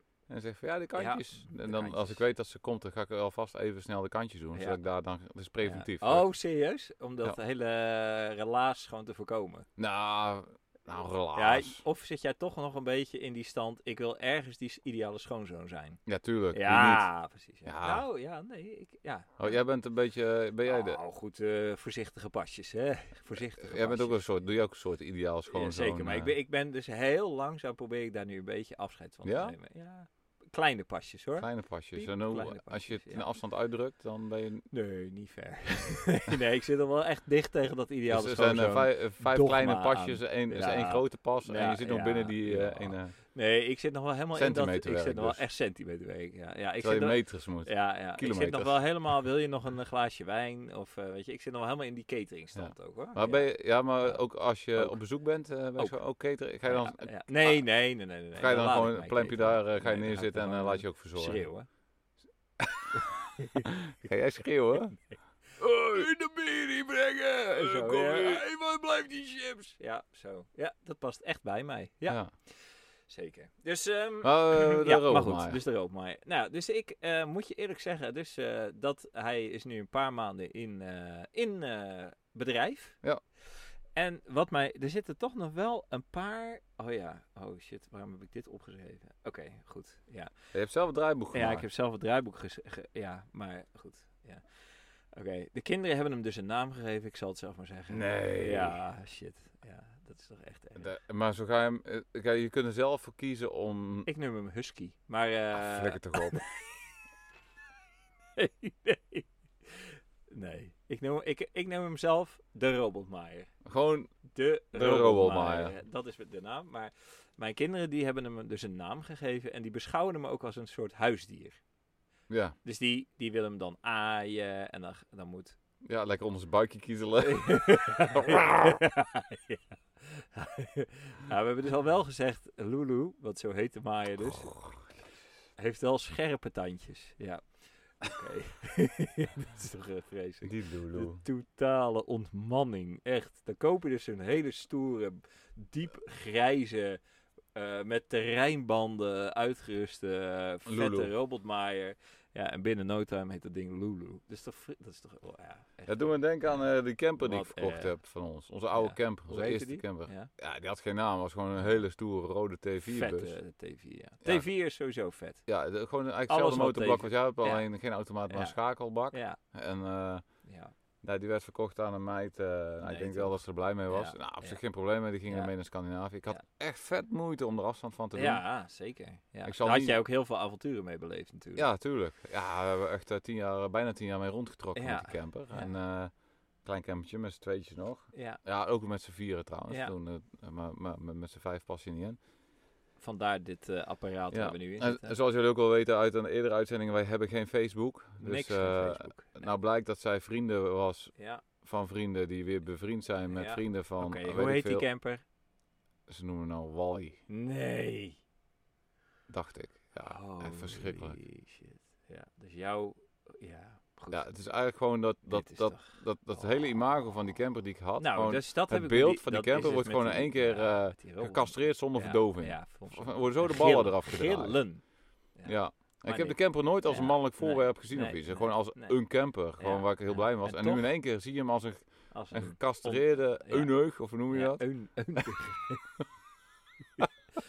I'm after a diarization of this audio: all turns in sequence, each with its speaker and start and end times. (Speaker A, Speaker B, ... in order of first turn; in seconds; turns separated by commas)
Speaker A: 0.3-6.3, Speaker B: 0.9-2.2, Speaker B: 4.5-4.8, Speaker B: 5.6-9.7, Speaker A: 9.8-11.8, Speaker B: 11.3-16.0, Speaker A: 16.1-17.1, Speaker B: 16.5-19.6, Speaker A: 17.6-18.0, Speaker A: 19.4-21.0, Speaker B: 20.6-24.2, Speaker A: 23.4-26.3, Speaker B: 25.5-33.2, Speaker A: 29.2-29.5, Speaker A: 31.4-34.6, Speaker B: 34.7-54.2, Speaker A: 38.1-43.1, Speaker A: 44.3-45.4, Speaker A: 46.8-48.8, Speaker A: 52.5-57.6, Speaker B: 56.6-61.7, Speaker A: 58.3-61.4, Speaker A: 62.6-62.9, Speaker B: 62.9-63.7, Speaker A: 63.6-65.0, Speaker A: 65.6-68.5, Speaker B: 65.9-83.0, Speaker A: 74.2-75.6, Speaker B: 83.5-90.3, Speaker A: 90.5-91.6, Speaker B: 91.3-94.4, Speaker B: 95.1-100.9, Speaker A: 97.9-98.8, Speaker A: 100.8-104.1, Speaker B: 104.0-106.8, Speaker A: 105.5-106.4, Speaker B: 108.3-113.5, Speaker A: 113.6-114.1, Speaker B: 114.3-121.6, Speaker A: 114.7-115.7, Speaker A: 122.3-122.5, Speaker B: 122.6-125.6, Speaker A: 125.8-128.8, Speaker B: 127.2-134.5, Speaker A: 134.2-135.0, Speaker B: 135.6-137.4, Speaker B: 138.0-147.0, Speaker A: 140.4-141.2, Speaker B: 147.5-156.7, Speaker A: 150.6-151.1, Speaker A: 155.9-163.3, Speaker B: 157.2-157.9, Speaker B: 158.7-160.3, Speaker B: 162.8-165.4, Speaker A: 165.5-170.2, Speaker B: 166.3-167.7, Speaker B: 168.3-168.6, Speaker B: 169.1-169.4, Speaker B: 170.4-170.7, Speaker A: 171.0-178.4, Speaker B: 172.8-174.6, Speaker B: 175.3-175.5, Speaker B: 178.1-181.7, Speaker A: 179.4-180.0, Speaker A: 181.6-186.1, Speaker B: 184.7-185.7, Speaker A: 186.6-192.2, Speaker B: 188.1-188.4, Speaker B: 189.7-189.9, Speaker B: 193.0-195.2, Speaker A: 194.3-204.8, Speaker B: 198.2-199.5, Speaker B: 201.2-201.4, Speaker B: 203.3-205.2, Speaker A: 206.1-207.2, Speaker B: 207.3-208.2, Speaker A: 209.3-211.2, Speaker B: 210.0-214.3, Speaker A: 214.1-224.6, Speaker B: 215.3-216.0, Speaker B: 218.0-224.8, Speaker A: 225.4-234.6, Speaker B: 226.1-229.0, Speaker B: 229.6-230.9, Speaker B: 232.1-233.7, Speaker B: 234.3-235.8